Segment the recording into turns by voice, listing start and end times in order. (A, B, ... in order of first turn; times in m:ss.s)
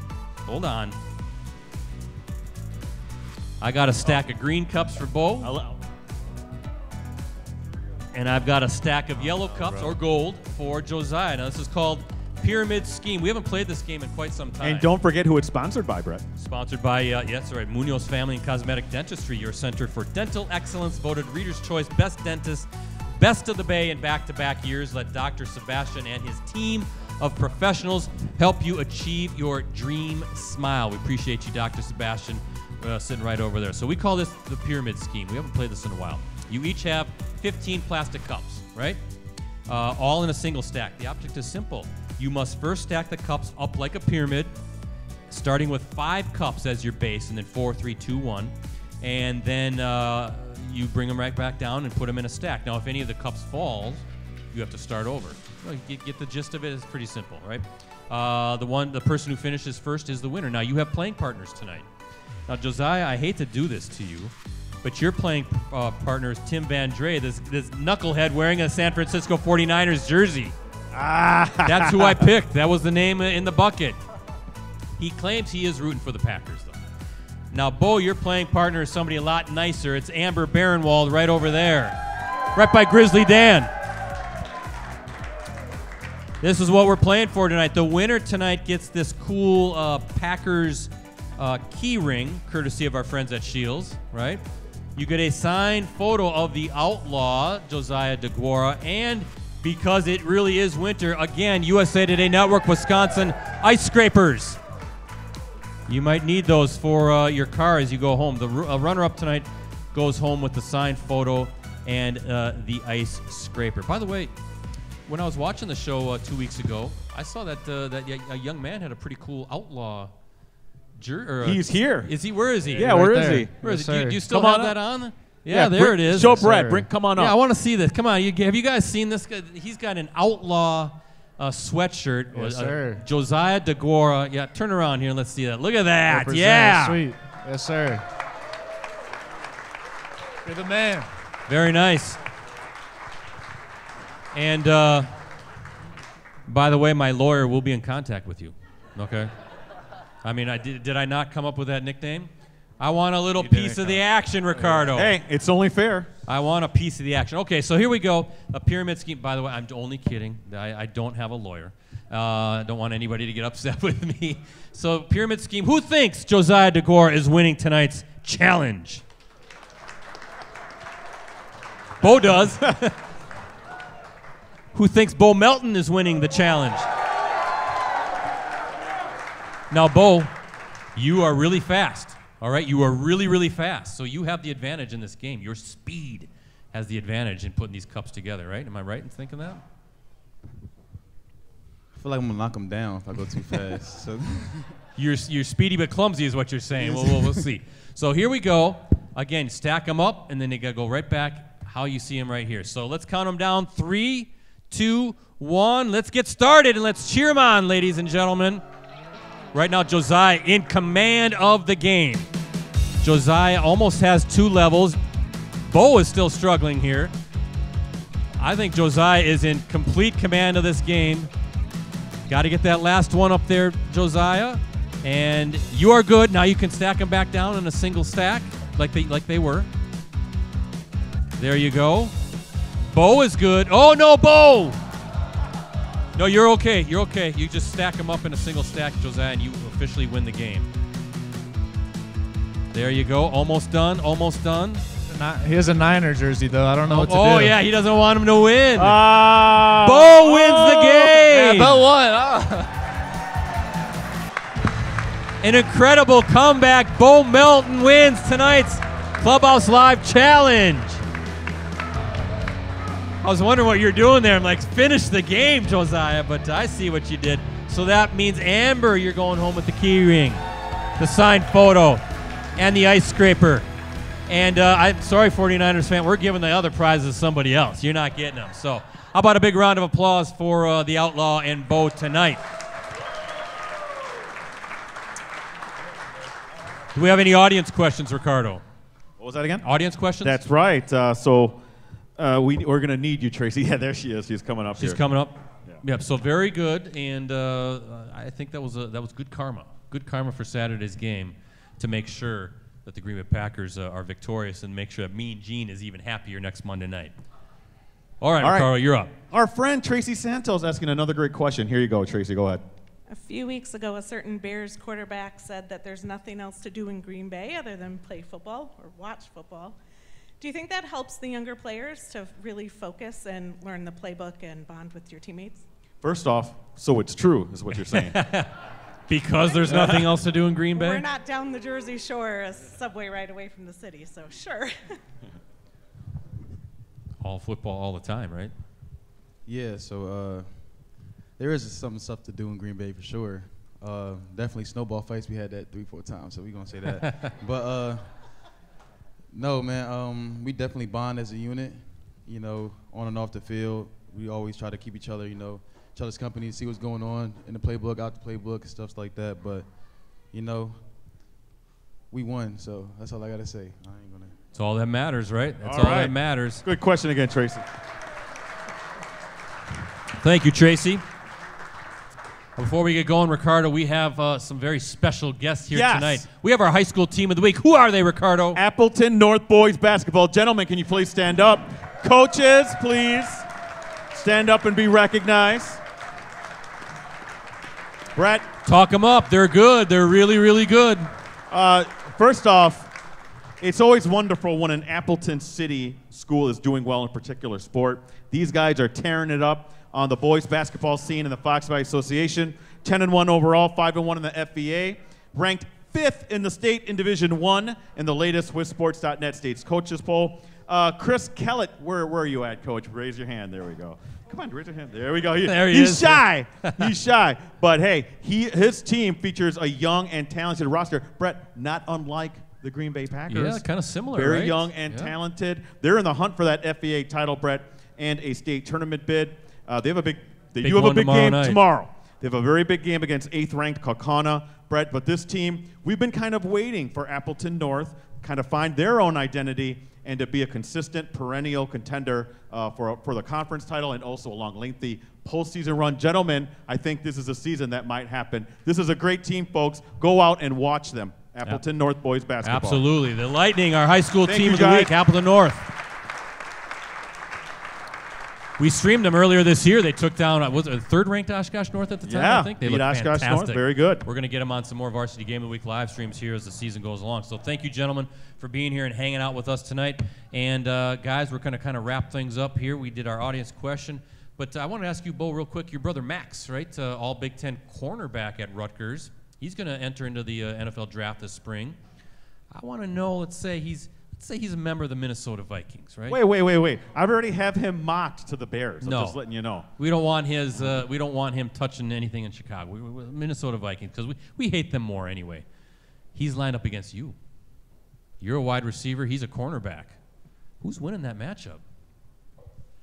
0:00.4-0:01.0 A
0:03.6-0:05.5 A
0:05.4-0:05.8 B
0:08.1-0:14.9 A
0:14.6-0:16.2 B
0:16.4-0:39.0 A
0:39.7-0:44.5 A
0:45.3-1:01.9 A
1:02.5-1:10.5 A
1:10.9-1:12.2 B
1:11.6-1:14.0 A
1:15.0-1:16.8 A
1:17.5-1:22.0 A
1:22.5-1:23.7 A
1:26.4-1:34.4 A
1:34.9-1:44.6 A
1:45.9-1:54.3 A
1:55.1-2:00.1 A
2:01.0-2:03.0 A
2:01.4-2:02.1 B
2:02.7-2:03.5 B
2:02.7-2:04.2 C
2:03.6-2:06.4 A
2:04.3-2:04.8 B
2:05.5-2:06.9 C
2:05.5-2:07.3 B
2:07.1-2:17.0 A
2:12.3-2:13.0 C
2:16.1-2:18.0 C
2:20.4-2:21.1 C
2:21.5-2:22.2 A
2:24.3-2:25.1 A
2:26.4-2:29.3 A
2:30.2-2:35.2 A
2:33.4-2:34.0 C
2:34.6-2:34.9 C
2:34.9-2:36.1 B
2:36.2-2:49.0 A
2:52.0-2:53.0 A
2:54.7-2:56.9 A
2:59.7-3:00.3 A
3:00.9-3:09.6 A
3:11.9-3:14.8 D
3:15.0-3:28.6 A
3:16.8-3:17.4 D
3:29.5-3:32.3 A
3:33.0-3:35.0 A
3:35.6-3:37.1 A
3:38.4-3:41.3 A
3:42.3-3:49.7 A
3:51.4-3:52.1 A
3:52.9-3:54.8 A
3:56.1-4:00.7 A
4:02.7-4:04.8 A
4:05.1-4:07.6 C
4:06.9-4:09.0 A
4:08.8-4:11.2 B
4:09.8-4:11.8 A
4:11.3-4:12.6 C
4:15.4-4:21.0 A
4:23.2-4:30.4 A
4:31.0-4:32.0 A
4:32.6-4:33.6 A
4:34.3-4:42.4 A
4:46.9-4:48.6 A
4:49.2-4:49.6 B
4:49.6-4:50.4 A
4:50.2-4:51.6 B
4:52.2-4:55.0 B
4:54.8-5:07.1 A
5:08.2-5:09.1 A
5:08.4-5:08.7 B
5:09.3-5:12.6 B
5:13.1-5:19.8 E
5:20.4-5:25.6 E
5:26.0-5:28.2 B
5:27.7-5:28.6 A
5:29.1-5:31.0 A
5:29.6-5:30.1 B
5:30.7-5:35.0 E
5:37.2-5:38.5 A
5:39.4-5:48.4 D
5:47.0-5:47.3 A
5:49.3-6:01.2 D
6:02.1-6:04.4 D
6:04.5-6:06.6 A
6:05.6-6:07.6 B
6:10.2-6:11.0 A
6:12.6-6:18.6 A
6:15.7-6:16.2 B
6:18.6-6:23.5 B
6:24.1-6:25.8 B
6:28.2-6:28.5 B
6:28.6-6:31.1 A
6:31.5-6:32.9 B
6:33.6-7:32.9 B
6:55.4-6:56.9 A
7:03.3-7:05.1 A
7:10.6-7:11.6 A
7:32.4-7:35.7 A
7:34.2-7:34.9 B
7:38.6-8:01.8 A
7:42.0-7:44.0 B
8:02.5-8:06.2 A
8:06.1-8:09.7 B
8:08.8-8:09.2 A
8:09.8-8:15.4 A
8:16.1-8:17.2 A
8:18.2-8:20.0 A
8:20.6-8:21.6 A